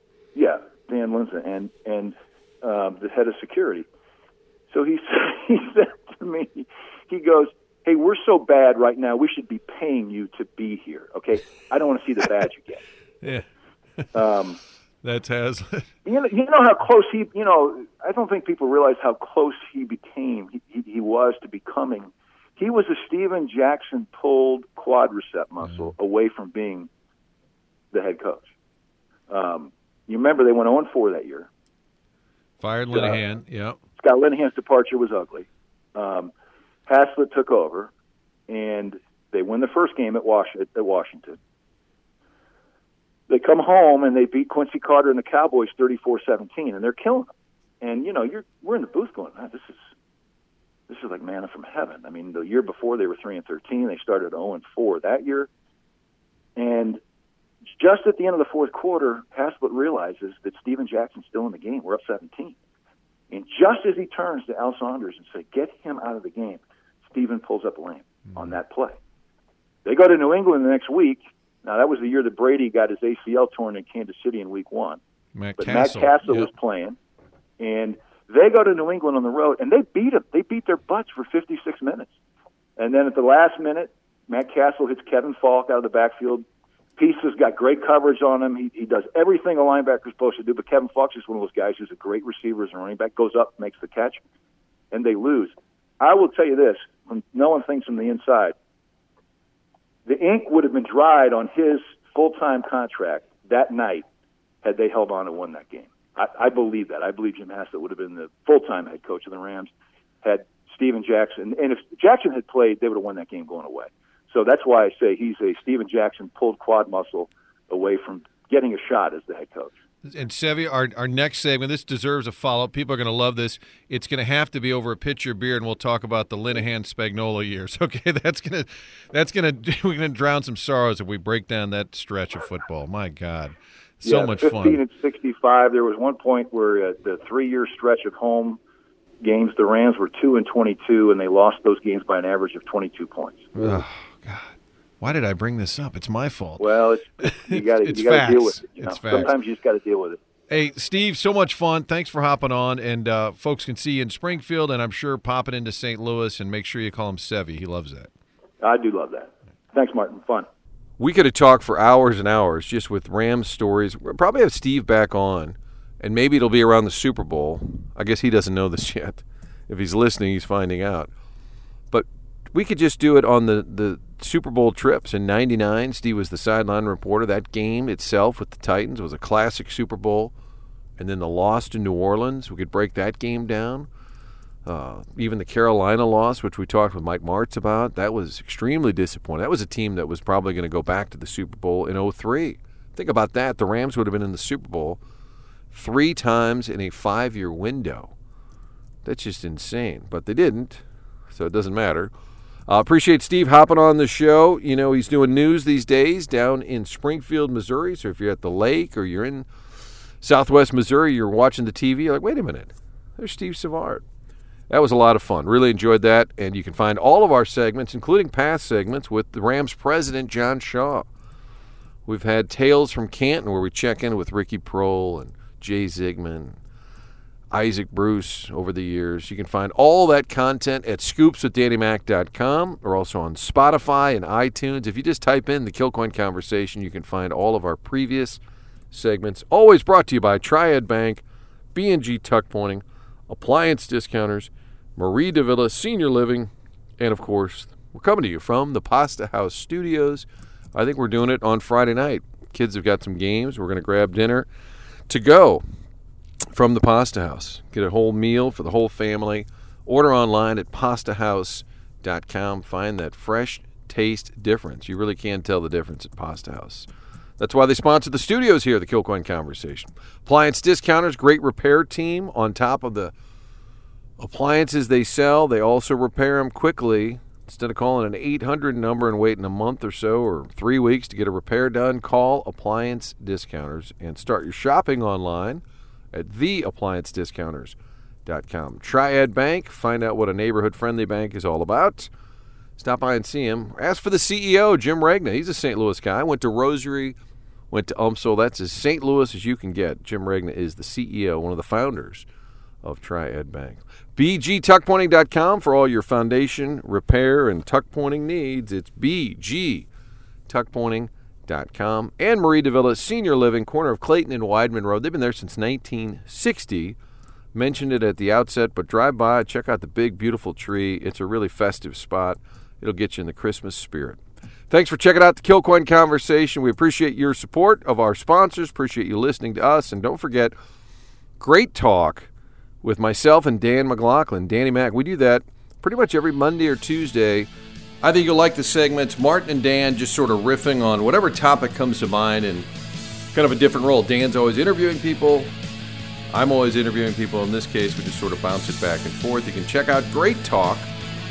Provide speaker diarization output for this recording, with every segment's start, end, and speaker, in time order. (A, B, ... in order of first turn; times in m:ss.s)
0:00.3-0:03.9 A
0:04.7-0:12.8 A
0:14.1-0:14.6 A
0:15.0-0:15.9 B
0:16.0-0:26.9 A
0:25.6-0:25.9 B
0:27.9-0:28.4 A
0:29.3-0:31.5 A
0:32.6-0:33.8 B
0:32.9-0:33.2 A
0:34.0-0:36.3 A
0:36.8-0:37.9 A
0:38.5-0:41.4 A
0:43.3-0:47.3 A
0:47.8-0:49.8 A
0:50.9-0:55.5 A
0:56.6-0:57.0 A
0:57.7-1:02.6 A
1:03.3-1:09.0 A
1:09.8-1:15.0 A
1:15.3-1:16.5 B
1:15.6-1:17.0 A
1:17.6-1:22.1 A
1:22.8-1:26.4 A
1:27.0-1:34.2 A
1:34.9-1:38.5 A
1:40.0-1:44.0 A
1:44.6-1:49.7 A
1:50.2-1:59.7 A
2:00.0-2:14.8 B
2:14.0-2:18.6 A
2:19.2-2:23.5 A
2:23.5-2:26.6 B
2:26.6-2:30.2 A
2:27.2-2:29.3 B
2:30.5-2:38.1 B
2:38.6-2:40.5 A
2:41.0-2:51.1 B
2:51.9-3:00.3 B
3:01.0-3:03.9 B
3:04.6-3:15.0 B
3:15.7-3:18.1 B
3:19.0-3:22.1 B
3:22.7-3:29.5 B
3:30.2-3:34.0 B
3:34.7-3:41.1 B
3:42.0-3:46.6 B
3:47.5-3:58.4 B
3:58.9-4:01.2 B
4:01.7-4:14.5 B
4:15.1-4:15.6 B
4:16.5-4:26.9 B
4:27.4-4:33.1 B
4:34.2-4:52.1 B
4:52.8-4:57.2 B
4:57.7-5:02.2 B
5:02.8-5:09.9 B
5:10.5-5:17.0 B
5:17.5-5:30.5 B
5:31.4-5:32.3 B
5:32.8-5:37.5 B
5:38.0-5:42.7 B
5:43.3-5:45.5 B
5:46.3-5:50.9 B